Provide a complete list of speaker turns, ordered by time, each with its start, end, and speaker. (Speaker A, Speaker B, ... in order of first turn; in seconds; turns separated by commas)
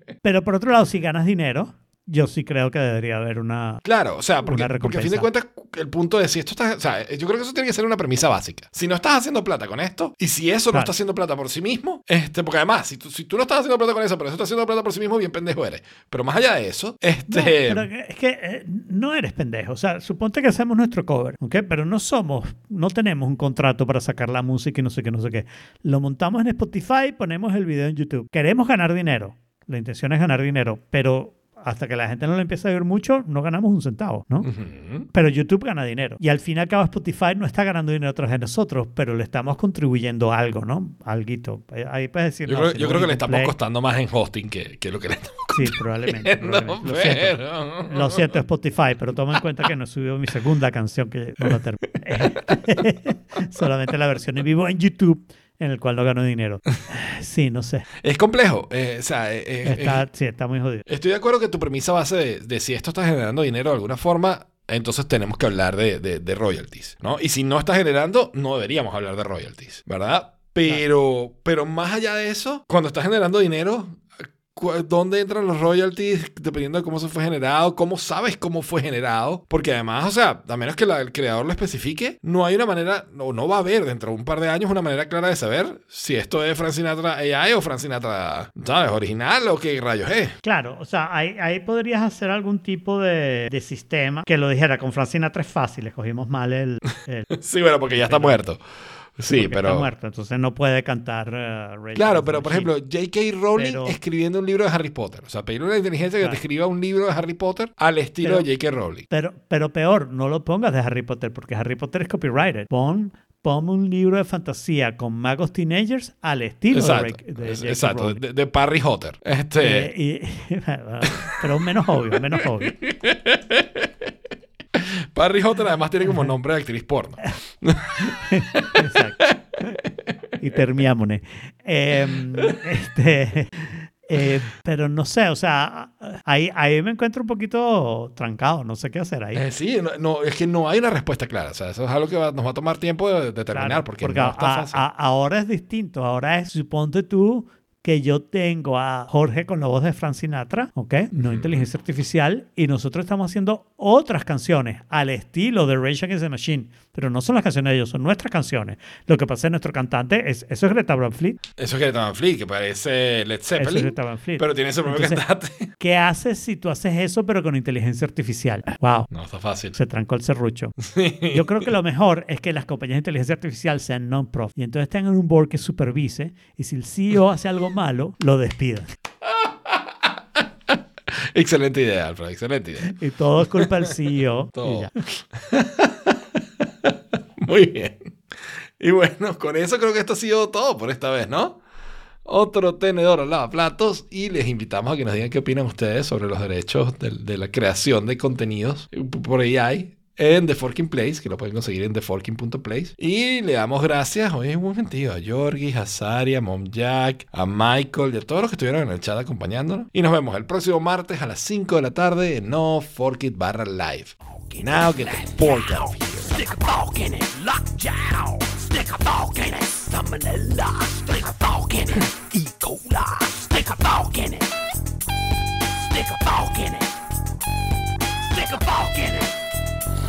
Speaker A: 0.2-3.8, Speaker B: 3.8-17.9, Speaker A: 4.4-5.3, Speaker A: 17.3-34.5, Speaker B: 34.4-35.1, Speaker A: 35.1-43.5, Speaker B: 42.5-48.3, Speaker A: 45.5-57.9, Speaker B: 52.1-52.6, Speaker B: 58.0-60.0, Speaker A: 59.6-60.9, Speaker B: 60.9-90.4, Speaker A: 90.4-97.3, Speaker B: 97.3-98.6, Speaker A: 97.9-98.4, Speaker B: 99.2-99.9, Speaker A: 99.3-102.7, Speaker B: 102.0-109.0, Speaker A: 103.5-104.0, Speaker A: 108.2-108.5, Speaker A: 109.1-118.2, Speaker B: 116.7-119.9, Speaker A: 119.6-122.8, Speaker B: 122.6-124.1, Speaker B: 124.7-130.2, Speaker A: 128.0-129.2, Speaker A: 130.4-139.4, Speaker B: 139.3-144.8, Speaker A: 143.5-161.4, Speaker B: 151.1-151.7, Speaker B: 161.6-165.7, Speaker A: 163.6-165.2, Speaker A: 165.8-169.1, Speaker B: 169.1-169.8, Speaker A: 169.7-178.9, Speaker B: 170.8-171.7, Speaker B: 179.3-183.9, Speaker A: 182.8-184.9, Speaker B: 184.6-188.2, Speaker B: 188.8-191.6, Speaker B: 192.2-216.4, Speaker C: 214.4-224.6, Speaker C: 225.7-227.0, Speaker C: 228.3-229.4